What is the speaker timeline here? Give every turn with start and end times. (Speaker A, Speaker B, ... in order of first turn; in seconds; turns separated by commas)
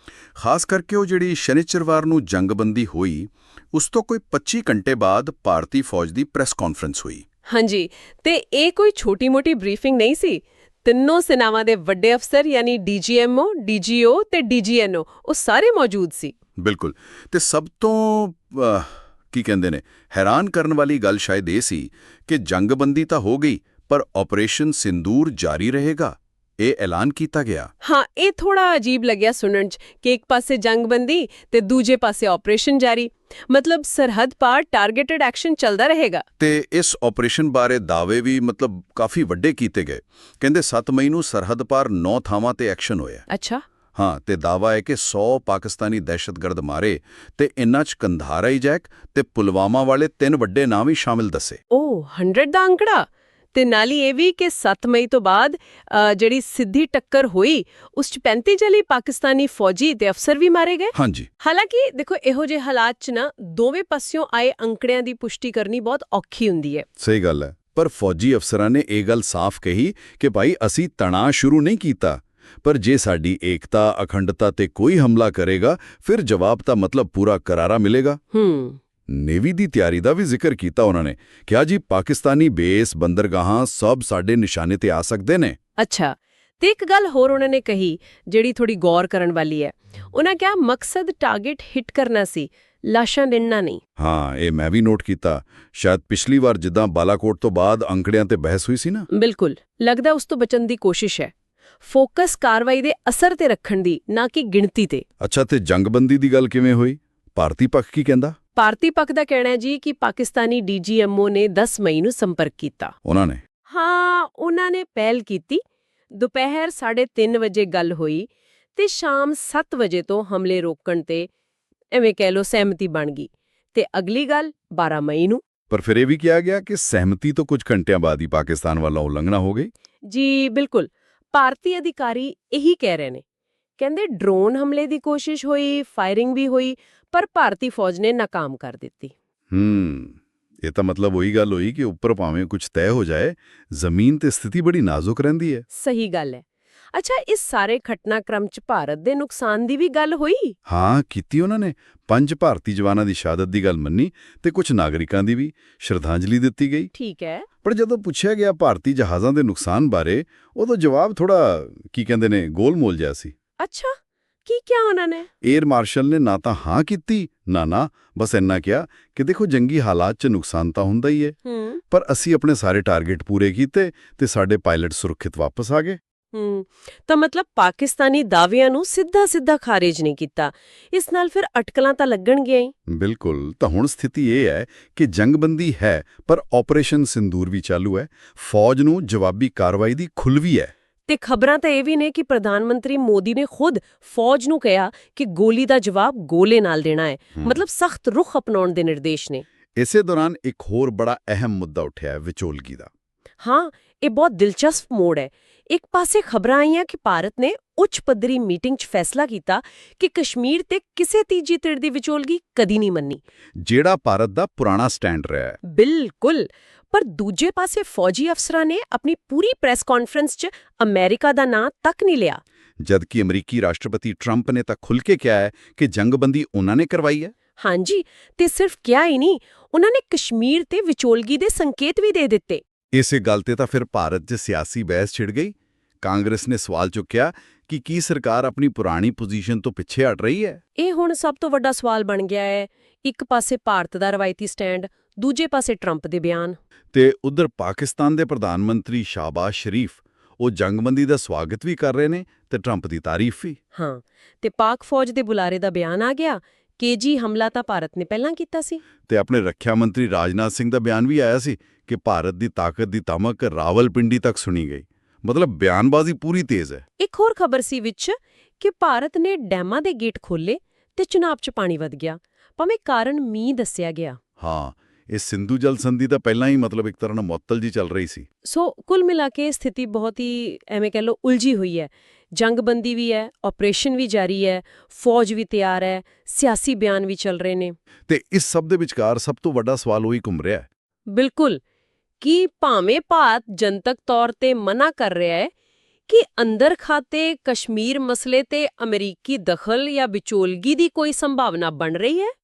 Speaker A: 0.4-7.2, Speaker B: 7.5-16.3, Speaker A: 16.6-27.7, Speaker B: 27.8-36.2, Speaker A: 36.4-43.2, Speaker B: 43.3-43.6, Speaker A: 44.0-51.6, Speaker B: 51.7-66.9, Speaker A: 60.9-61.3, Speaker A: 67.0-78.2, Speaker B: 78.3-78.8, Speaker A: 79.1-85.6, Speaker B: 85.8-93.8, Speaker A: 94.0-99.1, Speaker B: 99.1-101.3, Speaker B: 101.8-105.0, Speaker A: 105.2-108.4, Speaker B: 108.6-112.9, Speaker A: 113.0-113.4, Speaker B: 113.7-121.3, Speaker B: 121.9-125.4, Speaker A: 125.7-129.7, Speaker B: 130.1-133.2, Speaker B: 133.8-139.1, Speaker A: 139.5-145.7, Speaker B: 145.7-150.6, Speaker A: 150.7-156.9, Speaker B: 156.9-157.5, Speaker A: 157.6-163.3, Speaker B: 163.6-165.3, Speaker A: 165.4-171.4, Speaker B: 171.4-171.8, Speaker A: 171.9-176.0, Speaker B: 176.3-182.7, Speaker A: 182.9-190.7, Speaker B: 191.1-199.4, Speaker A: 199.8-202.9, Speaker B: 203.4-213.2, Speaker A: 213.6-215.6, Speaker B: 215.6-222.4, Speaker A: 222.8-227.3, Speaker B: 227.6-232.6, Speaker A: 232.9-240.6, Speaker B: 240.8-246.6, Speaker A: 246.9-253.6, Speaker B: 253.7-258.8, Speaker A: 259.1-266.8, Speaker B: 267.0-274.2, Speaker A: 274.4-278.3, Speaker B: 278.4-287.8, Speaker A: 288.1-290.7, Speaker B: 291.1-291.6, Speaker B: 292.2-295.5, Speaker B: 296.1-302.3